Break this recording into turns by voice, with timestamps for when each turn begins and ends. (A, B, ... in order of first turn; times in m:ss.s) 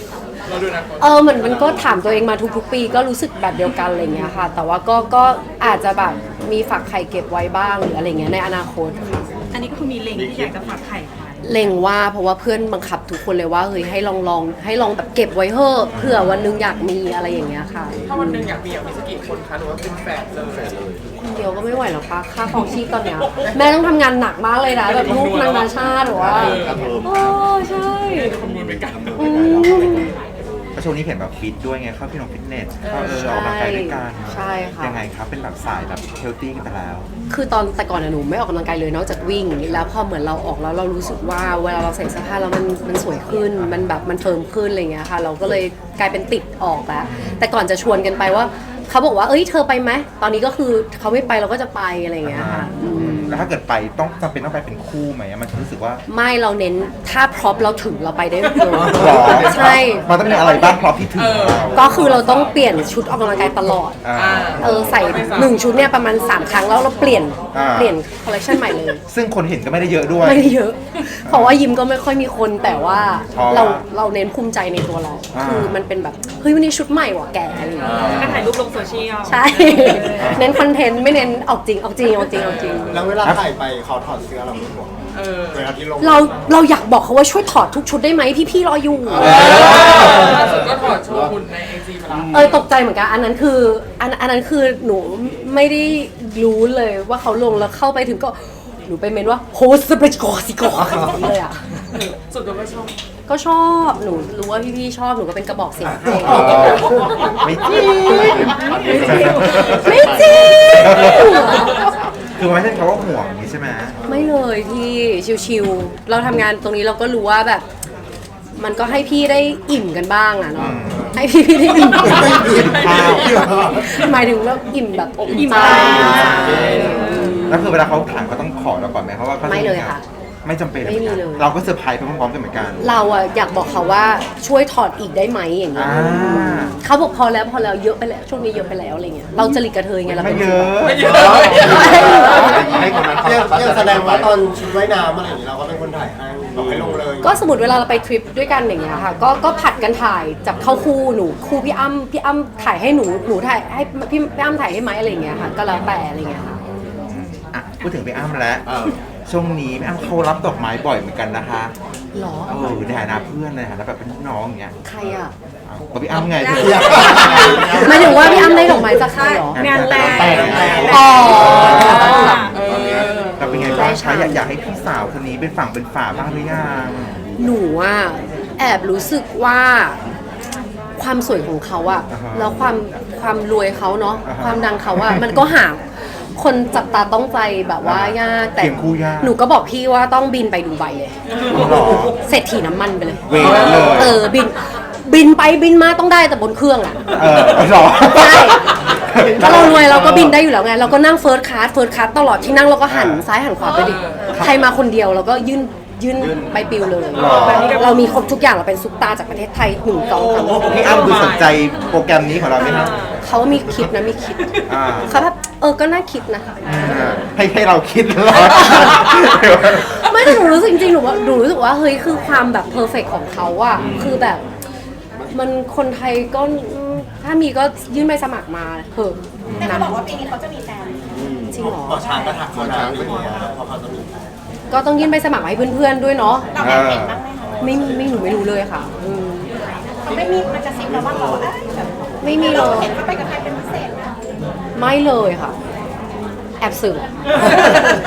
0:00.4-0:01.3 A
0:01.0-0:09.3 B
0:01.3-0:01.9 C
0:09.3-0:10.9 C
0:09.5-0:11.7 D
0:11.4-0:18.5 B
0:15.9-0:16.3 E
0:17.9-0:18.2 C
0:18.0-0:20.7 A
0:20.4-0:21.0 C
0:21.2-0:28.3 B
0:23.2-0:23.5 A
0:24.8-0:26.9 A
0:24.9-0:25.2 C
0:26.0-0:27.5 C
0:28.0-0:29.3 A
0:28.4-0:30.8 C
0:29.1-0:30.1 B
0:29.6-0:30.1 E
0:30.7-0:37.1 E
0:32.9-0:35.0 B
0:37.3-0:53.5 B
0:43.6-0:44.0 E
0:47.0-0:47.4 E
0:52.2-0:56.0 E
0:56.1-1:00.8 B
0:58.7-0:59.8 C
0:58.9-1:02.1 E
1:01.1-1:02.4 A
1:01.7-1:04.0 B
1:04.0-1:04.9 E
1:04.1-1:05.6 A
1:04.6-1:09.0 B
1:07.5-1:08.0 E
1:09.1-1:10.5 E
1:10.2-1:18.1 B
1:11.2-1:11.6 E
1:13.1-1:13.8 E
1:15.3-1:15.8 E
1:17.8-1:18.4 C
1:17.8-1:20.6 D
1:17.8-1:18.5 E
1:19.2-1:23.1 B
1:20.2-1:20.5 E
1:22.3-1:22.9 A
1:22.9-1:26.4 F
1:25.1-1:26.5 A
1:26.0-1:30.0 B
1:29.1-1:29.5 F
1:29.2-1:32.6 A
1:29.4-1:30.9 C
1:32.1-1:32.6 C
1:32.3-1:41.6 B
1:40.9-1:41.2 F
1:41.7-1:42.0 E
1:41.9-1:43.0 A
1:43.3-1:46.8 B
1:46.0-1:46.9 F
1:46.2-1:50.0 E
1:46.3-1:46.7 C
1:47.6-1:51.9 B
1:48.0-1:51.3 C
1:48.7-1:49.8 D
1:50.7-1:51.5 E
1:52.4-1:54.0 E
1:54.1-1:57.6 B
1:58.5-2:07.8 B
2:00.6-2:01.2 E
2:02.0-2:03.4 E
2:02.8-2:03.6 F
2:05.2-2:07.4 C
2:05.3-2:07.4 D
2:06.1-2:06.5 E
2:07.4-2:13.0 E
2:09.4-2:10.0 B
2:10.8-2:11.5 B
2:12.8-2:22.6 B
2:15.7-2:16.8 E
2:20.1-2:21.2 E
2:20.8-2:22.7 A
2:21.0-2:24.4 C
2:22.8-2:27.3 F
2:26.5-2:27.0 C
2:27.2-2:36.6 B
2:37.1-2:38.7 E
2:38.6-2:39.0 C
2:39.2-2:41.7 E
2:42.1-2:42.9 B
2:42.4-2:44.8 E
2:44.8-2:45.3 B
2:45.6-2:47.3 E
2:46.4-2:52.6 D
2:46.6-2:48.9 C
2:47.7-2:49.7 B
2:49.5-2:52.3 E
2:50.0-2:53.9 C
2:50.8-2:52.4 B
2:52.4-2:53.4 A
2:53.4-2:57.2 E
2:53.6-2:54.4 B
2:57.4-3:00.0 B
3:01.0-3:31.0 B
3:02.1-3:02.7 E
3:04.2-3:05.3 E
3:07.8-3:09.4 E
3:11.4-3:12.1 D
3:11.5-3:12.1 E
3:13.2-3:14.2 E
3:13.4-3:14.1 C
3:17.1-3:20.0 E
3:19.1-3:20.4 C
3:22.9-3:23.2 E
3:23.6-3:24.0 D
3:23.7-3:24.3 A
3:26.2-3:28.1 C
3:27.1-3:27.9 E
3:27.1-3:28.3 D
3:29.9-3:31.5 A
3:30.4-3:33.2 E
3:30.8-3:33.2 D
3:32.6-3:37.1 B
3:34.7-3:35.3 E
3:36.6-3:40.5 E
3:38.6-3:39.1 B
3:39.9-3:44.4 B
3:43.8-3:44.2 C
3:43.8-3:44.2 E
3:45.3-3:50.0 B
3:49.4-3:49.9 E
3:49.6-3:51.1 G
3:51.1-3:51.6 C
3:51.5-3:52.0 B
3:51.6-3:54.1 F
3:52.0-3:52.4 G
3:52.5-3:53.5 C
3:54.7-3:56.5 B
3:56.5-3:58.0 G
3:56.6-3:57.2 E
3:57.6-3:59.5 B
4:00.0-4:04.1 G
4:00.9-4:01.5 C
4:02.2-4:03.0 B
4:04.7-4:05.6 B
4:06.6-4:07.7 B